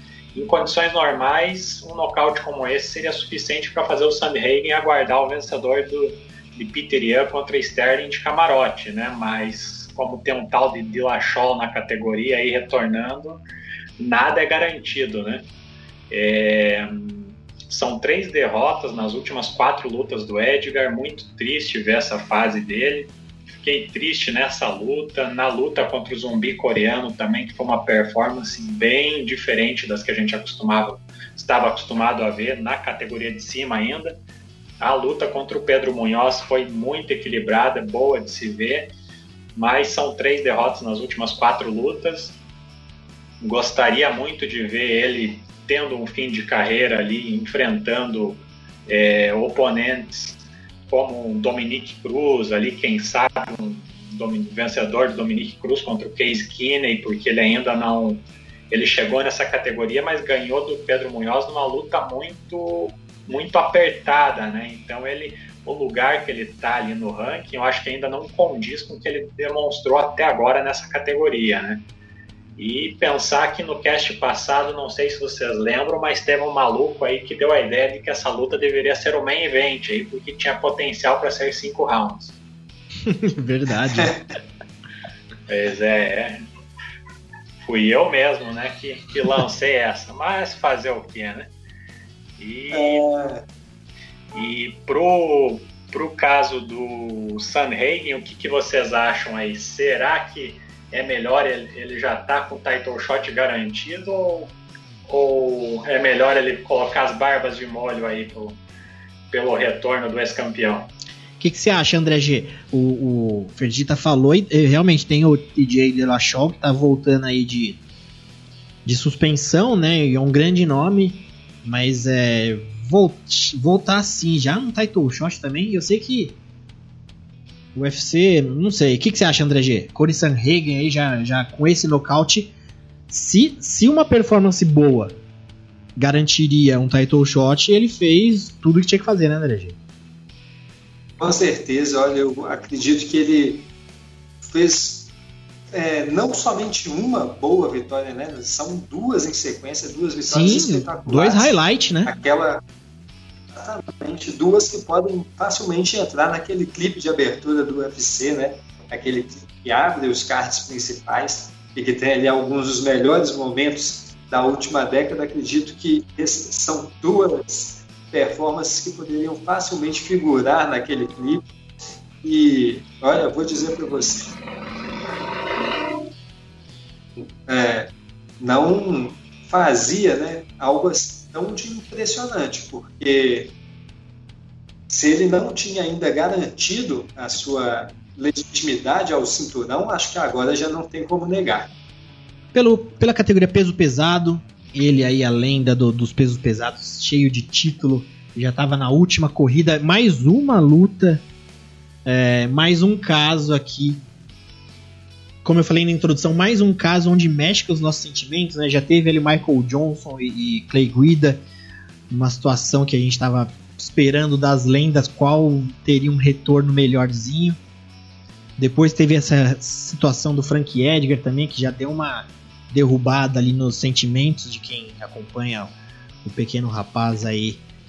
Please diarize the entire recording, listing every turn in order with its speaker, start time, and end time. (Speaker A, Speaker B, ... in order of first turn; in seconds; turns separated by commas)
Speaker A: 0.3-13.4, Speaker A: 14.0-15.5, Speaker A: 16.1-34.1, Speaker A: 34.8-38.9, Speaker A: 39.6-42.4, Speaker A: 43.4-71.8, Speaker A: 72.6-82.4, Speaker B: 83.0-84.2, Speaker C: 83.9-84.2, Speaker A: 85.5-86.4, Speaker A: 87.6-91.5, Speaker A: 92.4-93.0, Speaker C: 92.7-93.4, Speaker A: 94.3-104.5, Speaker A: 105.1-108.6, Speaker A: 109.3-110.9, Speaker B: 111.4-117.8, Speaker B: 118.8-126.4, Speaker B: 127.8-132.5, Speaker B: 133.1-135.2, Speaker B: 136.0-139.8, Speaker C: 141.2-143.7, Speaker C: 144.4-145.1, Speaker C: 145.7-152.6, Speaker B: 150.3-152.1, Speaker C: 153.5-171.4, Speaker C: 172.2-174.4, Speaker C: 177.2-183.5, Speaker C: 184.9-191.7, Speaker B: 192.5-201.2, Speaker B: 202.1-204.1, Speaker B: 205.4-211.4, Speaker B: 212.1-217.6, Speaker B: 218.6-225.7, Speaker B: 226.2-227.6